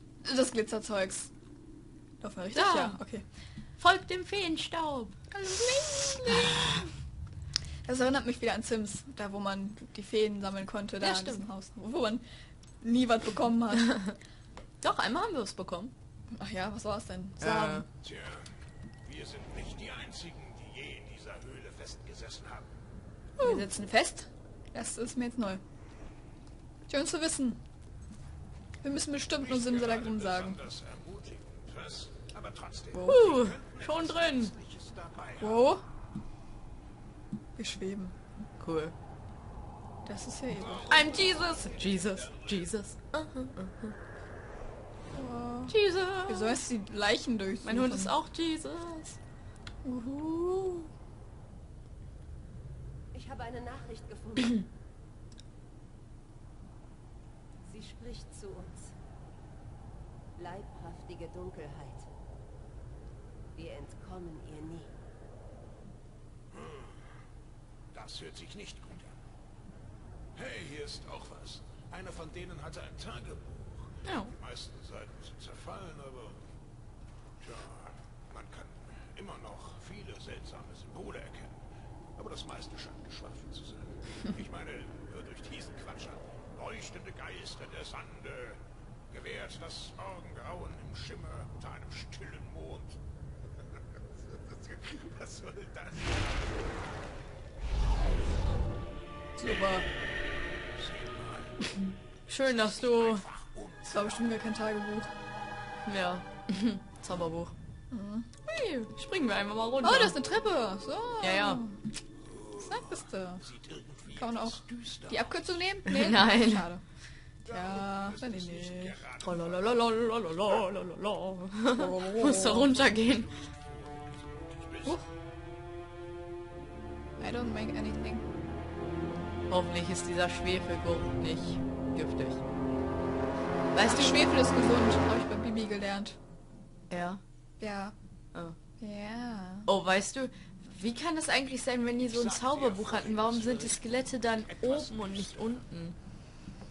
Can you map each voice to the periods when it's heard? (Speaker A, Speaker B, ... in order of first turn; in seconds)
Speaker A: 0.2-1.3, 2.2-3.2, 5.3-6.8, 7.8-12.2, 12.8-14.1, 16.3-17.9, 23.4-25.6, 26.9-27.6, 28.8-30.6, 35.4-35.8, 37.5-38.1, 40.0-41.2, 45.1-45.8, 46.3-48.1, 49.8-50.9, 99.4-99.8, 103.9-105.1, 107.9-108.3, 109.8-111.8, 112.5-113.4, 114.1-116.8, 117.5-119.0, 121.7-122.7, 127.2-128.2, 133.8-136.2, 137.6-137.9, 138.8-139.7
Speaker B: 2.5-3.0, 3.8-5.1, 11.0-11.4, 14.8-15.9, 17.4-17.9, 23.4-23.6, 33.0-34.5, 38.6-38.9, 40.8-43.9, 45.7-46.6, 47.6-49.2, 74.0-74.3, 102.3-103.2, 105.8-107.5, 108.5-110.2, 111.2-111.6, 115.8-116.7, 119.2-123.3, 129.5-132.4, 133.7-134.3, 136.9-137.2, 139.7-145.9
Speaker C: 18.0-18.4, 19.0-22.7, 29.6-35.6, 40.9-42.4, 67.9-69.1, 70.3-73.8, 74.3-76.4, 77.4-81.5, 82.2-92.9, 94.7-96.1, 100.9-101.2, 102.9-104.0, 113.5-114.9, 117.9-119.6, 123.5-124.8, 142.7-143.7, 145.0-145.3
Speaker D: 53.1-54.6, 57.6-58.9, 60.4-62.1, 63.5-64.9